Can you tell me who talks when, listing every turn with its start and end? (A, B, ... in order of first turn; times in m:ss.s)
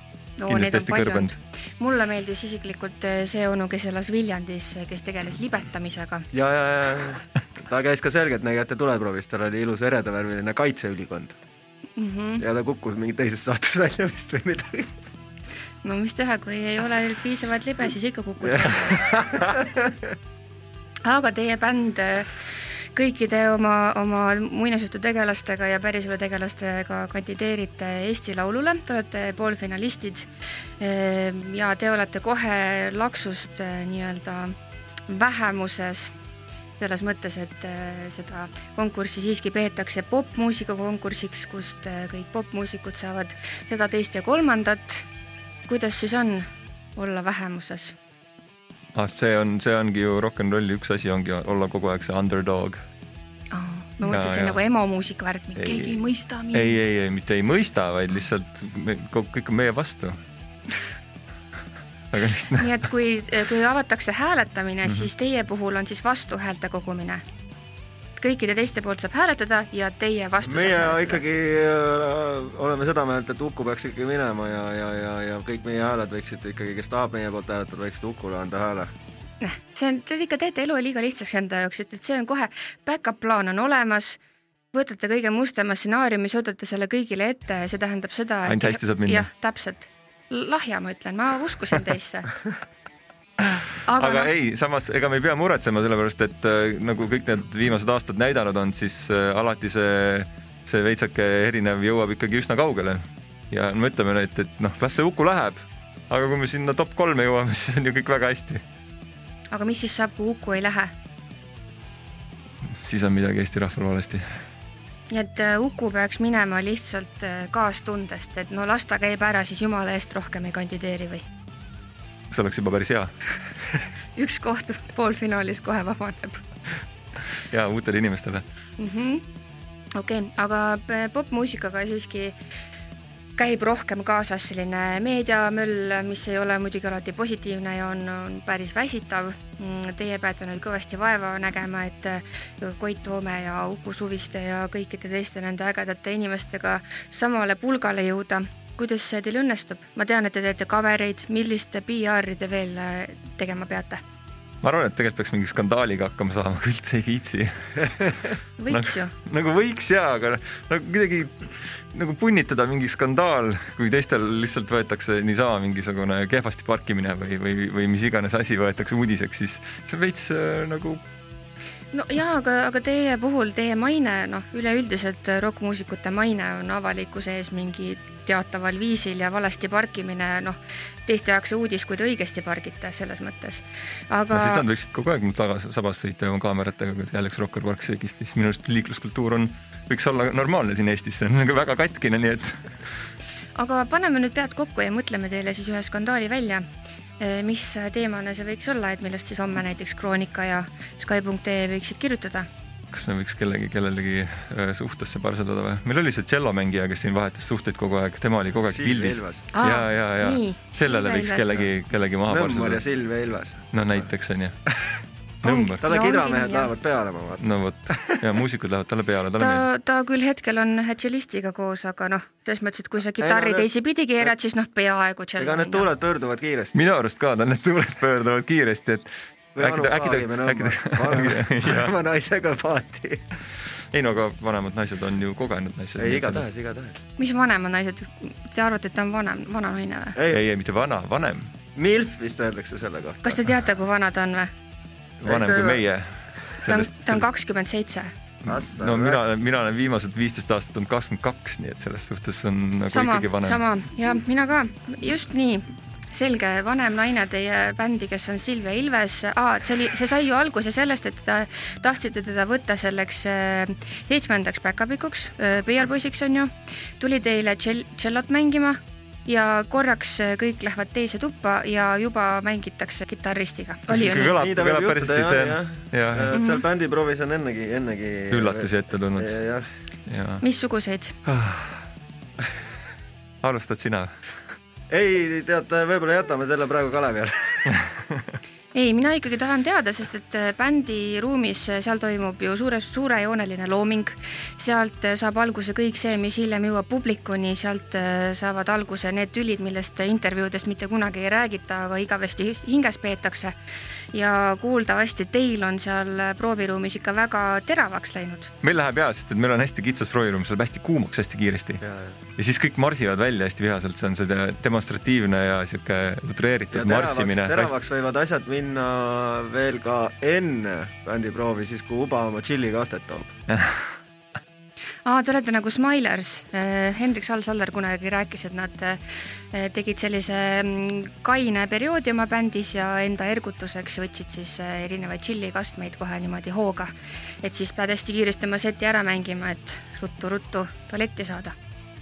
0:00.4-0:06.3 A
0:00.5-0:01.3 B
0:06.3-0:11.4 C
0:12.0-0:12.4 A
0:12.4-0:14.9 C
0:15.8-0:19.1 A
0:18.5-0:20.0 C
0:21.0-0:30.3 A
0:30.8-0:34.6 A
0:35.1-0:36.1 A
0:36.8-0:45.0 A
0:45.7-0:48.0 A
0:48.9-0:52.8 B
0:53.5-0:56.8 A
0:54.0-0:54.6 B
0:55.6-0:56.0 B
0:56.5-1:00.2 B
1:02.1-1:02.8 B
1:02.6-1:07.2 A
1:04.8-1:05.1 B
1:08.2-1:11.2 A
1:10.4-1:18.9 C
1:19.4-1:24.2 A
1:24.7-1:32.3 A
1:28.4-1:29.3 B
1:33.4-1:48.6 B
1:33.8-1:34.3 A
1:49.5-1:50.9 A
1:52.6-1:54.2 B
1:55.1-2:01.2 A
2:02.3-2:03.1 B
2:04.2-2:06.4 A
2:07.4-2:08.4 B
2:08.8-2:09.2 A
2:09.9-2:12.3 A
2:13.4-2:34.0 A
2:34.6-2:51.0 B
2:38.6-2:39.1 A
2:51.9-3:04.6 A
3:04.3-3:12.6 B
3:13.6-3:16.6 A
3:17.2-3:22.5 A
3:22.9-3:32.8 B
3:28.6-3:29.5 C
3:29.5-3:31.7 A
3:32.3-3:34.1 C
3:33.7-3:34.5 B
3:35.4-3:35.8 B
3:35.4-3:36.7 A
3:35.8-3:38.2 C
3:37.4-3:39.7 B
3:39.4-3:45.9 A
3:43.2-3:43.7 C
3:45.4-3:46.8 C
3:46.7-3:51.9 B
3:49.5-3:53.2 C
3:53.9-3:56.5 B
3:56.0-3:57.0 C
3:57.2-4:00.2 A
4:00.2-4:00.4 C
4:00.3-4:01.5 B
4:01.7-4:03.4 C
4:03.2-4:04.5 A
4:05.2-4:05.8 C
4:05.2-4:07.3 B
4:06.7-4:08.1 A
4:08.4-4:13.6 B
4:08.4-4:09.3 C
4:12.9-4:34.3 A
4:33.9-4:36.4 B
4:34.2-4:39.7 C
4:36.3-4:36.6 A
4:38.3-4:39.4 B
4:40.1-4:40.4 B
4:40.4-4:41.2 A
4:41.2-4:41.8 B
4:43.4-4:44.1 B
4:44.9-4:47.8 C
4:48.7-5:03.5 A
5:04.1-5:08.5 A
5:08.6-5:11.8 B
5:11.8-5:12.2 C
5:12.4-5:17.7 B
5:16.7-5:23.3 C
5:23.5-5:23.9 B
5:25.0-5:41.5 A